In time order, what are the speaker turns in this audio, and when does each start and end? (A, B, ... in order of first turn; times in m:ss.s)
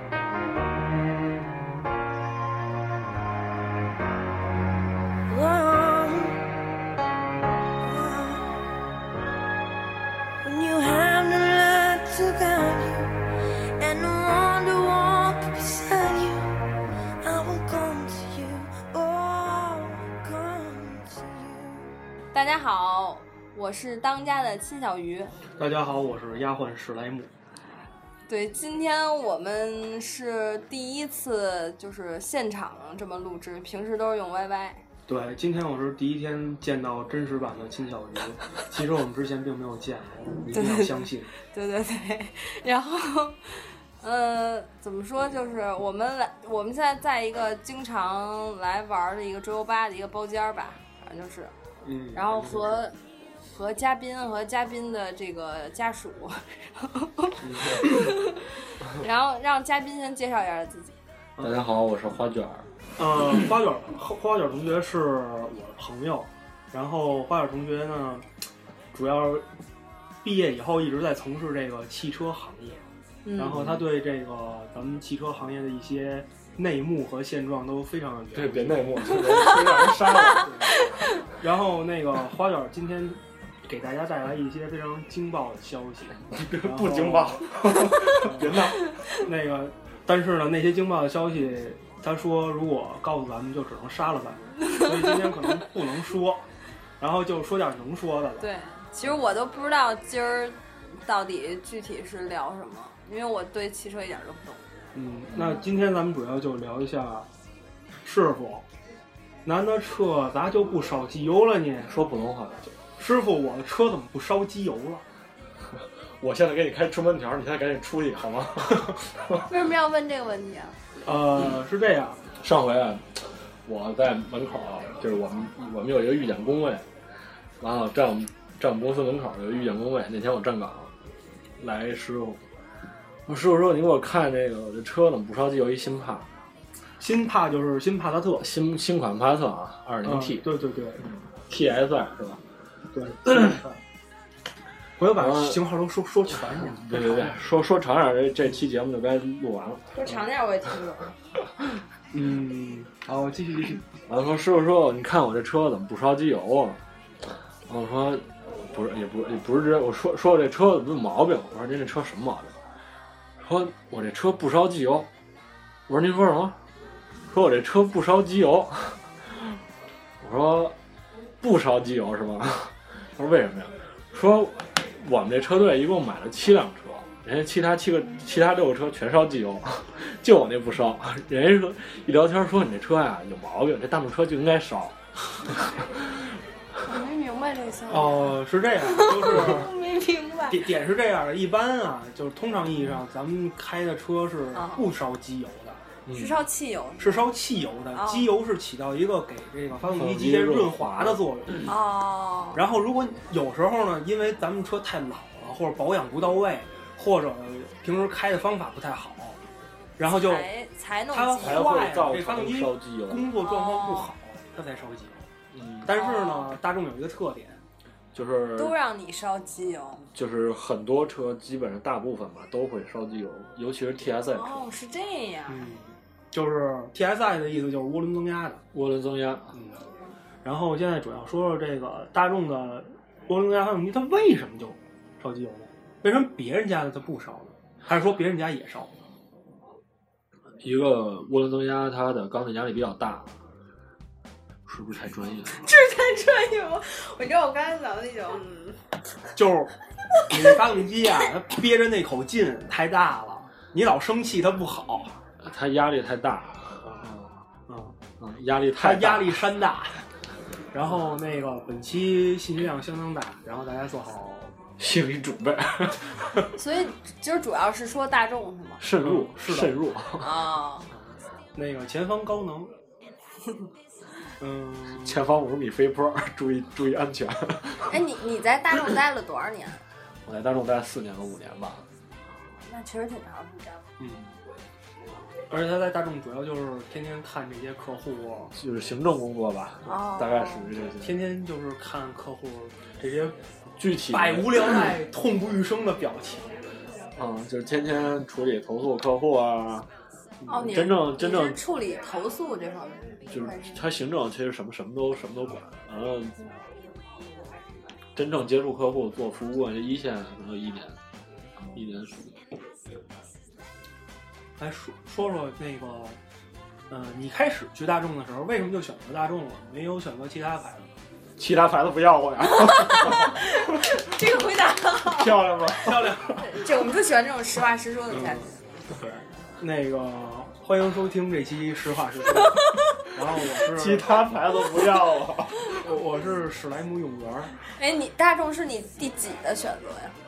0:05.3-0:06.5 A
0:07.8-0:08.7 A
0:10.4-0:16.6 A
0:17.2-0:21.9 A
0:22.3-0:25.3 B
0:25.6-0:27.3 C
0:28.3-0:34.8 B
0:35.1-0:41.3 C
0:40.5-0:51.5 B
0:51.8-0:52.6 C
0:52.1-0:52.9 B
0:53.5-1:00.9 B
0:57.4-0:57.8 C
1:01.4-1:02.7 D
1:03.0-1:08.3 C
1:08.9-1:09.4 C
1:10.2-1:12.8 C
1:13.2-1:13.6 B
1:13.4-1:19.0 C
1:13.5-1:13.8 D
1:18.3-1:20.6 D
1:19.4-1:19.9 B
1:20.4-1:20.7 C
1:21.4-1:28.6 C
1:26.3-1:28.8 D
1:29.1-1:36.4 C
1:37.0-1:38.5 C
1:38.4-1:44.6 B
1:44.9-1:47.3 C
1:48.0-1:48.6 C
1:49.4-1:51.9 C
1:51.9-1:52.7 D
1:53.0-1:55.0 C
1:56.2-1:59.4 D
1:59.5-2:00.7 B
2:01.0-2:02.2 C
2:02.4-2:06.8 D
2:07.6-2:10.9 D
2:11.6-2:12.4 D
2:13.3-2:16.3 D
2:17.0-2:18.5 C
2:18.4-2:20.4 D
2:20.0-2:21.0 C
2:21.4-2:22.4 D
2:22.9-2:23.8 C
2:25.0-2:27.4 C
2:25.1-2:25.6 D
2:26.5-2:30.2 D
2:29.9-2:31.1 B
2:32.1-2:33.8 C
2:34.1-2:36.8 D
2:37.7-2:42.5 D
2:43.4-2:45.1 D
2:45.9-2:46.6 D
2:47.3-2:49.0 D
2:50.2-2:50.8 D
2:51.4-3:06.0 D
3:06.9-3:08.3 B
3:07.9-3:09.7 C
3:08.8-3:10.6 B
3:10.5-3:15.8 C
3:14.5-3:14.8 B
3:16.0-3:16.4 D
3:16.1-3:17.3 B
3:17.0-3:21.7 C
3:17.9-3:18.3 B
3:19.8-3:21.2 D
3:21.7-3:22.6 B
3:22.5-3:29.4 C
3:30.0-3:30.5 C
3:30.1-3:31.6 B
3:31.1-3:35.3 C
3:31.4-3:33.3 D
3:33.4-3:34.1 B
3:35.5-3:36.0 D
3:35.8-3:37.6 C
3:35.9-3:36.5 B
3:38.1-3:38.7 D
3:38.6-3:40.0 B
3:40.1-3:44.6 D
3:44.3-3:45.7 B
3:45.5-3:48.6 C
3:48.7-3:49.6 D
3:49.5-3:49.8 C
3:50.4-3:58.9 C
4:00.6-4:03.3 D
4:04.6-4:05.6 D
4:05.5-4:08.8 B
4:09.3-4:09.7 C
4:10.3-4:15.2 C
4:15.4-4:17.3 D
4:17.7-4:18.0 C
4:18.2-4:19.4 D
4:18.8-4:20.0 C
4:20.7-4:24.5 C
4:24.8-4:26.2 D
4:26.6-4:28.8 B
4:28.8-4:30.3 D
4:29.0-4:29.8 C
4:30.2-4:30.9 B
4:31.5-4:32.7 C
4:34.4-4:35.2 C
4:35.0-4:37.9 D
4:37.9-4:39.8 B
4:40.2-4:41.8 D
4:42.4-4:43.8 B
4:44.0-4:44.2 C
4:45.5-4:48.5 C
4:48.5-4:51.2 D
4:49.8-4:50.7 B
4:51.0-4:53.3 C
4:53.8-4:54.8 D
4:54.1-4:56.5 C
4:57.2-4:59.9 D
5:00.5-5:03.9 B
5:00.6-5:01.6 D
5:03.3-5:06.4 D
5:08.2-5:11.0 D
5:11.7-5:12.3 D
5:14.6-5:16.2 C
5:16.9-5:20.9 C
5:21.4-5:23.3 D
5:22.8-5:25.3 B
5:25.0-5:26.3 D
5:25.8-5:26.4 C
5:26.4-5:28.5 B
5:28.1-5:34.3 C
5:33.7-5:35.7 D
5:35.7-5:37.5 C
5:37.8-5:40.2 B